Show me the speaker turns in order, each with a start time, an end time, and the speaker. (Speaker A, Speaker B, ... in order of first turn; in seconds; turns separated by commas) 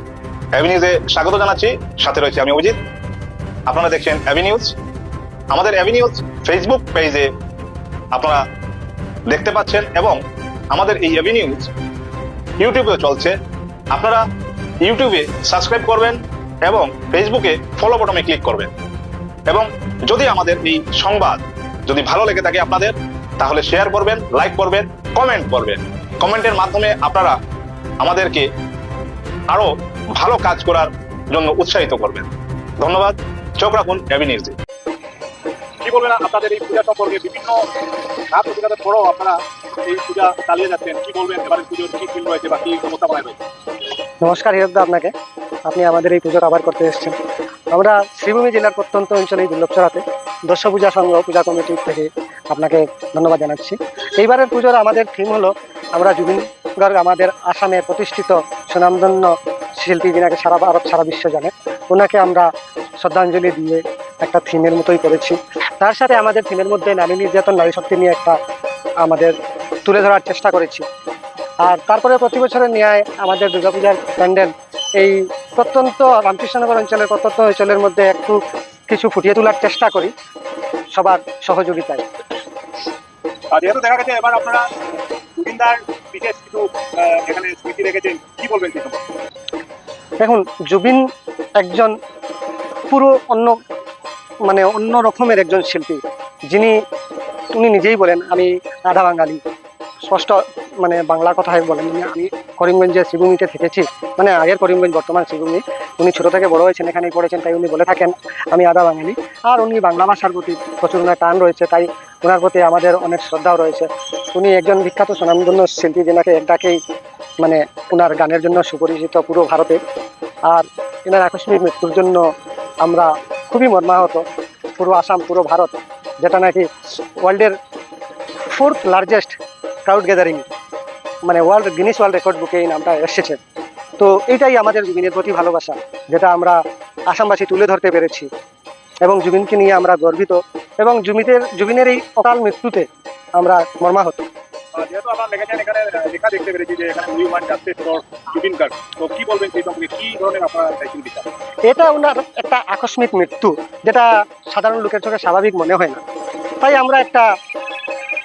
Speaker A: 0.5-2.8, Speaker A: 3.7-4.7, Speaker A: 5.5-7.3, Speaker A: 8.1-8.4, Speaker A: 9.3-10.2, Speaker A: 10.7-11.7, Speaker A: 12.6-13.3, Speaker A: 13.9-14.2, Speaker A: 14.8-18.7, Speaker A: 19.5-27.4, Speaker A: 28.0-28.4, Speaker A: 29.5-32.3, Speaker A: 32.8-34.5, Speaker B: 35.8-37.6, Speaker B: 38.3-43.4, Speaker C: 44.2-45.1, Speaker C: 45.6-47.1, Speaker C: 47.7-62.5, Speaker C: 63.0-68.3, Speaker C: 69.0-69.3, Speaker C: 69.8-70.8, Speaker C: 71.6-80.1, Speaker C: 80.9-82.0, Speaker B: 83.5-84.6, Speaker B: 85.3-89.0, Speaker C: 90.2-91.0, Speaker C: 91.6-91.9, Speaker C: 92.9-93.6, Speaker C: 94.4-96.8, Speaker C: 97.5-99.4, Speaker C: 100.1-116.8, Speaker C: 117.4-119.8, Speaker C: 120.5-122.2, Speaker C: 122.8-124.2, Speaker C: 124.8-126.7, Speaker C: 127.2-127.5, Speaker C: 128.5-130.4, Speaker C: 131.2-133.4, Speaker C: 134.0-138.3, Speaker C: 139.0-144.2, Speaker B: 144.8-151.2, Speaker C: 151.7-156.0, Speaker C: 156.6-157.2